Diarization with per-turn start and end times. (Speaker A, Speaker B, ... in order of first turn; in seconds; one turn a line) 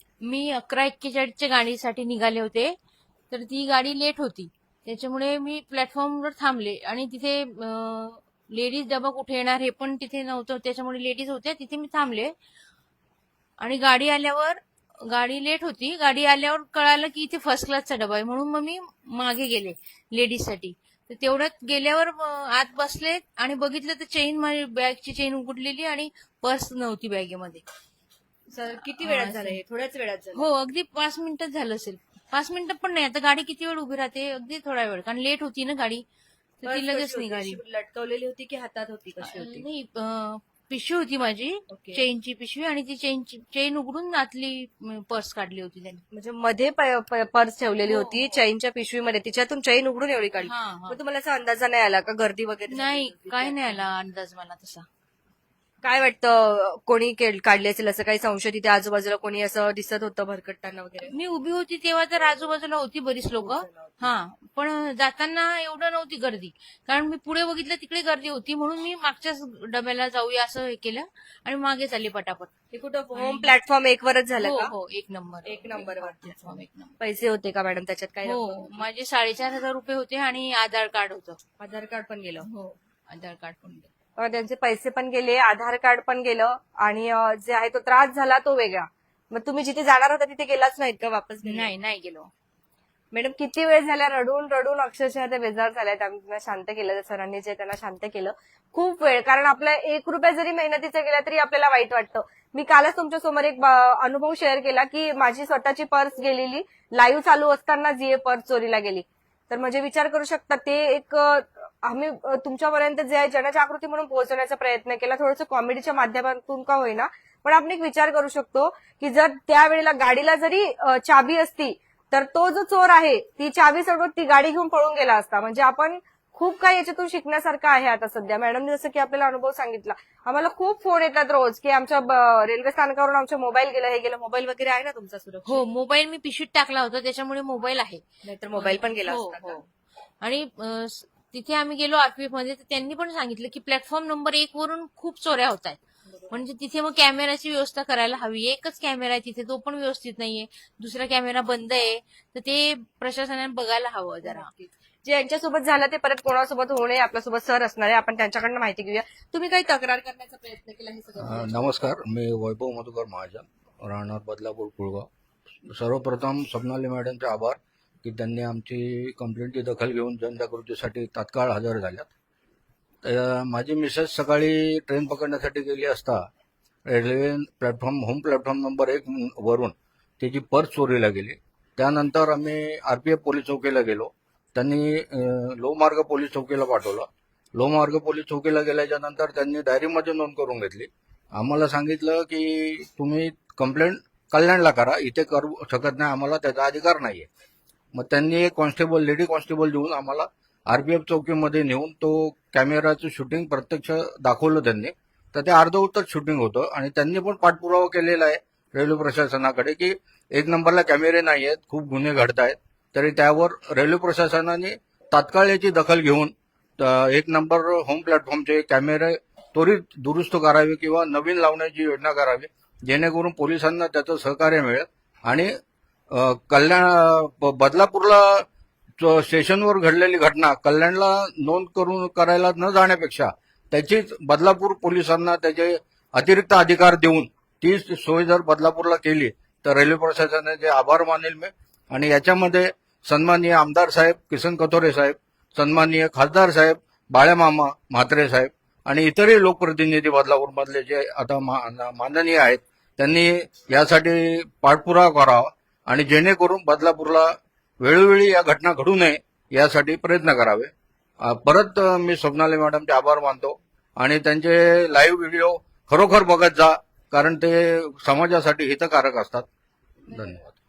Speaker A: 0.2-2.8
Speaker A: 3.3-12.3
Speaker A: 13.6-27.6
Speaker B: 28.5-30.4
Speaker A: 29.0-29.6
Speaker A: 30.3-36.0
Speaker A: 36.6-37.6
Speaker B: 36.6-39.6
Speaker A: 39.2-46.0
Speaker B: 41.7-42.0
Speaker B: 46.1-53.8
Speaker A: 47.9-48.4
Speaker A: 50.4-51.0
Speaker A: 52.7-54.9
Speaker B: 55.8-61.1
Speaker A: 61.0-72.5
Speaker B: 63.4-64.0
Speaker B: 72.7-74.7
Speaker A: 73.1-73.5
Speaker A: 74.4-77.0
Speaker B: 75.4-78.8
Speaker A: 78.2-81.4
Speaker B: 81.6-82.5
Speaker A: 82.4-83.9
Speaker B: 84.2-91.7
Speaker A: 91.4-92.3
Speaker B: 93.1-135.6
Speaker A: 135.4-139.7
Speaker B: 138.2-139.6
Speaker A: 140.2-145.8
Speaker A: 146.3-154.5
Speaker B: 154.2-161.8
Speaker C: 161.2-165.1
Speaker C: 165.7-172.1
Speaker C: 173.0-176.3
Speaker C: 176.8-197.3
Speaker C: 197.9-225.5
Speaker C: 226.1-228.4
Speaker C: 229.0-260.7
Speaker C: 261.2-269.4
Speaker C: 270.1-270.5